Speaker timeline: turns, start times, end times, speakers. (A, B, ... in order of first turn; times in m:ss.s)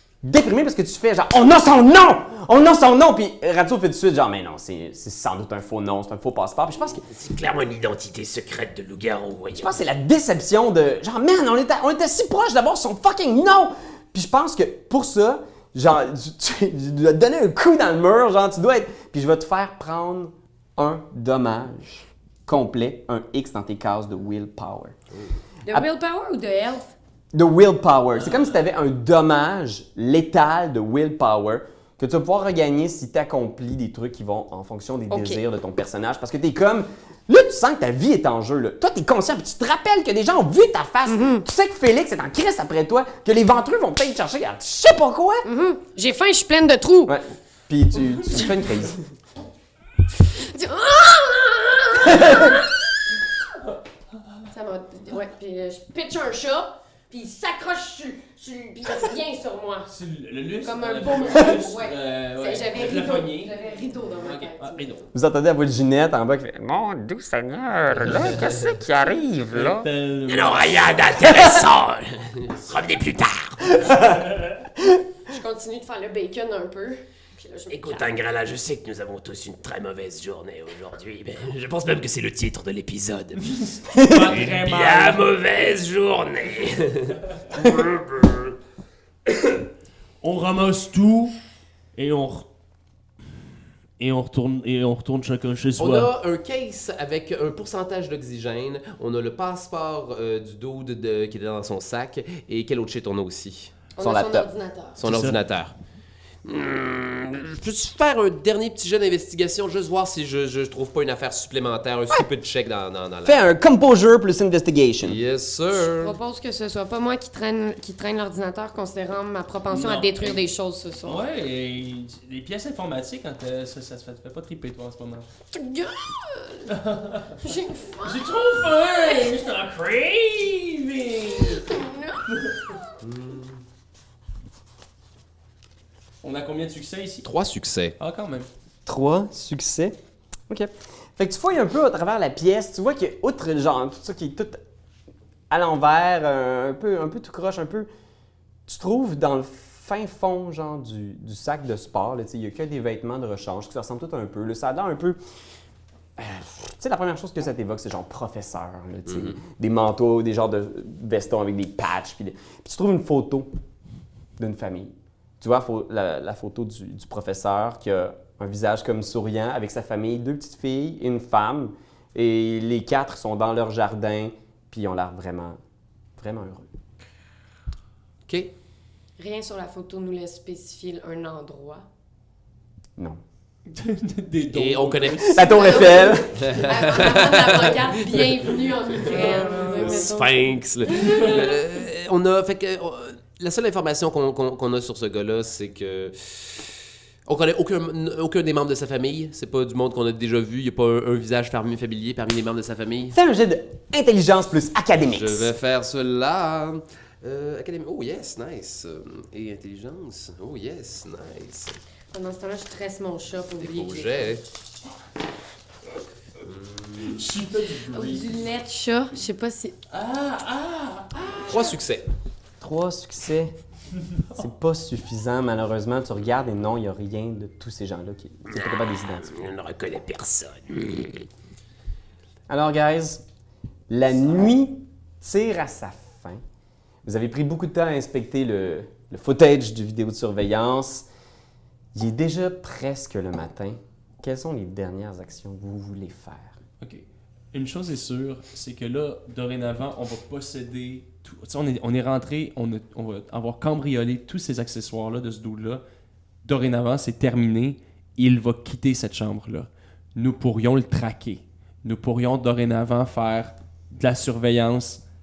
0:00.2-0:07.0 A
0:07.0-0:09.7 B
0:09.6-0:25.0 A
0:25.7-0:26.9 C
0:27.3-0:45.5 A
0:28.2-0:28.6 D
0:35.1-0:35.4 C
0:41.1-0:41.4 C
0:45.4-0:47.2 C
0:47.1-0:49.0 A
0:50.2-0:52.7 C
0:52.1-0:52.4 A
0:54.5-0:59.9 C
0:59.9-1:03.6 D
1:00.6-1:04.9 C
1:04.2-1:05.1 D
1:05.1-1:09.9 A
1:08.0-1:08.4 D
1:09.5-1:10.9 D
1:10.3-1:13.8 B
1:14.0-1:14.5 D
1:15.3-1:18.2 C
1:17.7-1:23.6 B
1:23.6-1:25.3 D
1:23.9-1:24.3 A
1:24.3-1:28.5 B
1:30.2-1:31.4 D
1:32.0-1:32.5 D
1:34.0-1:36.1 D
1:35.8-1:43.8 E
1:44.0-1:45.0 C
1:44.0-1:44.5 A
1:45.0-1:45.8 E
1:45.0-1:45.4 D
1:46.4-1:53.4 E
1:53.2-1:55.2 A
1:55.0-1:56.2 E
1:55.8-2:01.2 C
1:59.7-2:00.4 D
2:01.0-2:05.3 D
2:05.5-2:06.7 C
2:06.7-2:07.4 D
2:07.4-2:08.3 C
2:08.0-2:11.7 D
2:11.5-2:12.2 C
2:12.3-2:12.7 D
2:13.0-2:13.6 E
2:16.2-2:17.3 D
2:17.2-2:18.0 E
2:18.0-2:18.5 D
2:18.9-2:20.0 A
2:20.5-2:24.6 A
2:25.5-2:27.9 A
2:28.7-2:35.2 A
2:36.2-2:43.5 A
2:39.1-2:39.4 E
2:44.4-2:55.6 A
2:56.2-2:56.7 A
2:59.2-3:01.9 C
3:03.7-3:06.2 D
3:04.5-3:08.6 E
3:05.3-3:06.4 A
3:05.6-3:11.5 C
3:09.0-3:10.0 D
3:09.1-3:16.7 E
3:10.9-3:11.4 D
3:17.3-3:23.2 E
3:23.1-3:25.5 A
3:25.1-3:31.8 E
3:32.1-3:34.4 C
3:33.6-3:34.4 E
3:36.4-3:37.2 E
3:37.0-3:38.4 D
3:37.9-3:39.8 C
3:39.9-3:41.7 D
3:41.5-3:42.0 E
3:42.6-3:43.5 A
3:44.3-3:49.4 A
3:48.5-3:51.3 B
3:52.5-3:53.2 A
3:53.9-3:56.4 A
3:57.0-4:01.1 A
4:01.9-4:06.6 A
4:06.8-4:15.8 D
4:16.4-4:25.0 D